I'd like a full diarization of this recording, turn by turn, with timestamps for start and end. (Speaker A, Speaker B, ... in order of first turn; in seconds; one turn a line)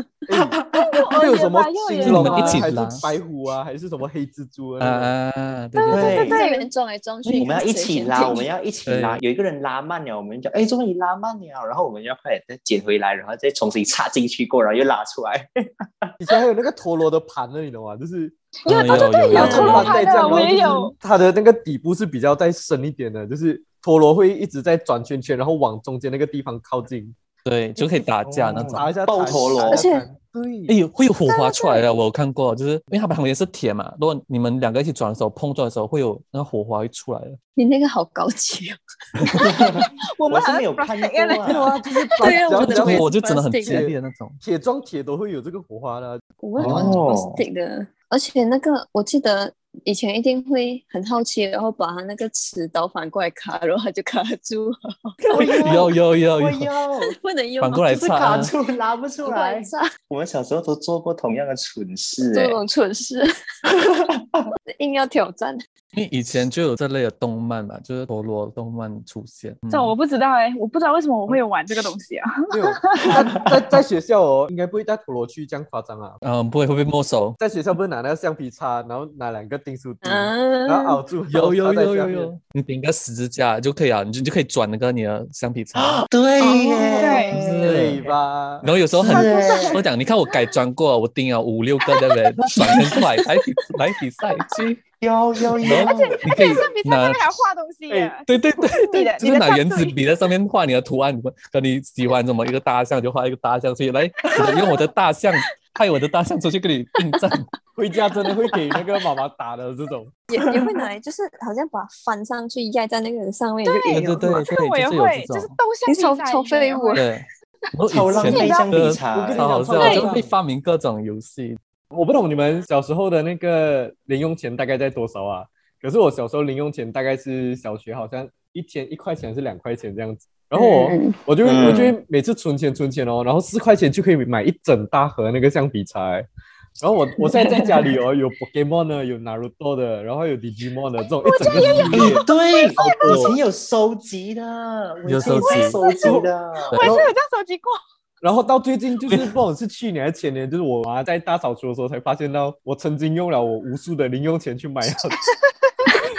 Speaker A: 0.3-5.1
Speaker B: 0.3-0.9
Speaker C: 0.7-2.7
Speaker D: 2.0-3.2
Speaker D: 4.8-6.4
Speaker C: 5.8-6.7
Speaker B: 5.9-6.4
Speaker E: 6.0-8.5
Speaker B: 7.4-16.1
Speaker D: 8.9-9.2
Speaker A: 16.2-18.4
Speaker C: 18.6-20.9
Speaker D: 18.7-20.5
Speaker A: 18.9-27.1
Speaker D: 27.4-28.9
Speaker A: 28.2-30.7
Speaker B: 28.5-29.9
Speaker E: 29.7-30.1
Speaker D: 30.7-37.4
Speaker C: 31.5-31.8
Speaker E: 37.6-39.4
Speaker B: 39.5-41.7
Speaker C: 39.8-41.6
Speaker A: 41.5-43.1
Speaker E: 42.2-43.9
Speaker D: 42.5-44.4
Speaker A: 43.6-46.2
Speaker E: 46.4-54.7
Speaker D: 46.6-47.0
Speaker B: 46.6-47.4
Speaker D: 55.3-56.7
Speaker B: 55.3-57.1
Speaker E: 57.1-58.1
Speaker D: 57.6-58.5
Speaker B: 57.9-62.6
Speaker E: 59.2-59.8
Speaker E: 62.2-63.3
Speaker B: 64.1-64.4
Speaker E: 64.8-65.6
Speaker D: 65.9-69.9
Speaker C: 69.7-73.2
Speaker A: 72.5-76.2
Speaker D: 76.2-77.4
Speaker A: 77.4-82.3
Speaker E: 80.0-81.0
Speaker D: 81.3-86.1
Speaker B: 85.8-87.7
Speaker E: 86.4-87.2
Speaker C: 87.0-87.4
Speaker D: 87.3-94.8
Speaker A: 87.6-88.7
Speaker B: 89.0-89.8
Speaker C: 89.1-89.8
Speaker B: 95.0-96.6
Speaker D: 95.6-97.5
Speaker C: 95.6-100.0
Speaker A: 97.9-98.2
Speaker D: 98.3-107.5
Speaker C: 104.2-104.8
Speaker A: 107.8-110.1
Speaker E: 110.3-114.5
Speaker C: 113.6-117.1
Speaker D: 113.9-115.5
Speaker E: 115.9-117.0
Speaker D: 117.0-121.6
Speaker B: 117.9-119.6
Speaker C: 118.1-118.8
Speaker A: 119.0-120.3
Speaker C: 119.8-120.1
Speaker A: 121.9-136.3
Speaker E: 130.6-131.2
Speaker B: 131.4-132.0
Speaker A: 136.8-142.3
Speaker E: 137.3-137.7
Speaker C: 141.2-143.3
Speaker B: 141.9-146.8
Speaker A: 142.8-143.3
Speaker D: 145.1-145.8
Speaker C: 145.4-147.8
Speaker A: 146.0-146.3
Speaker A: 146.8-147.1
Speaker A: 148.2-155.2
Speaker C: 155.2-155.9